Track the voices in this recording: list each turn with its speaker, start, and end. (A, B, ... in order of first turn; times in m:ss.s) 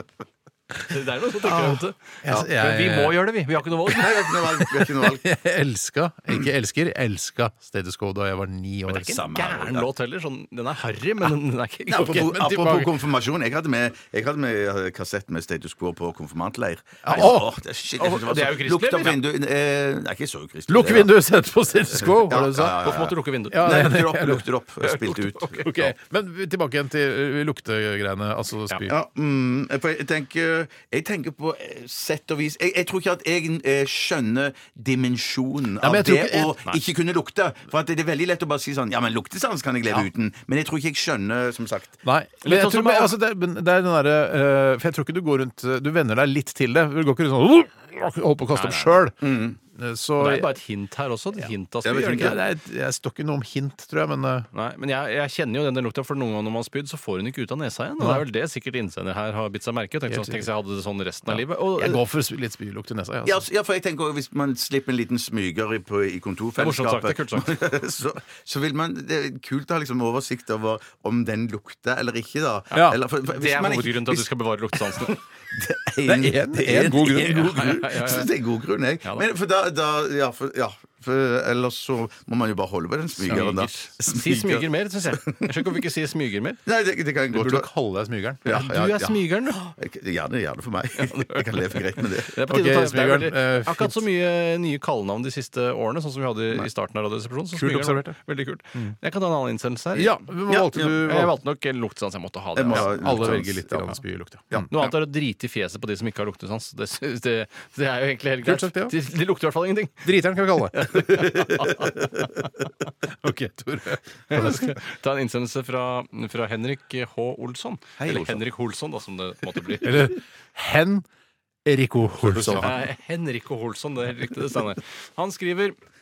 0:00.8-0:04.3 A
0:01.4-0:03.2 B
0:03.9-0:05.3 C
0:04.4-0:09.2 B
0:08.9-0:12.2 A
0:09.0-0:09.9 C
0:11.9-0:21.1 C
0:12.0-0:12.9 B
0:17.0-0:17.5 B
0:18.0-0:19.2 A
0:20.7-0:22.9 B
0:22.0-0:25.9 C
0:22.7-0:23.9 A
0:23.5-0:24.4 B
0:24.8-0:25.6 A
0:25.6-0:28.9 B
0:28.9-0:42.0 C
0:35.8-0:36.6 B
0:42.0-0:49.2 B
0:42.4-0:43.1 A
0:48.5-0:49.0 A
0:49.2-0:49.6 C
0:49.7-0:50.5 B
0:50.2-0:52.4 A
0:51.8-0:52.4 C
0:52.0-0:54.5 B
0:54.5-1:02.0 A
0:58.0-0:58.2 B
1:00.1-1:00.5 B
1:01.2-1:03.4 B
1:03.2-1:14.3 C
1:06.6-1:07.5 A
1:12.7-1:15.2 A
1:14.8-1:25.6 C
1:16.0-1:17.6 B
1:17.5-1:18.3 A
1:23.2-1:23.5 B
1:23.3-1:26.6 A
1:26.6-1:27.7 C
1:27.3-1:28.4 B
1:28.4-1:32.3 C
1:28.4-1:29.6 A
1:31.0-1:40.2 A
1:32.5-1:34.0 B
1:37.5-1:38.2 B
1:40.0-1:41.3 B
1:40.5-1:41.0 C
1:41.0-1:43.4 A
1:42.5-1:43.9 C
1:42.7-1:44.9 B
1:44.7-1:52.3 A
1:48.4-1:48.9 B
1:50.0-1:51.1 B
1:53.1-1:54.8 B
1:54.3-2:00.1 A
1:58.0-1:58.4 C
1:59.8-2:01.0 B
2:01.6-2:02.7 B
2:02.3-2:02.7 C
2:02.5-2:05.8 A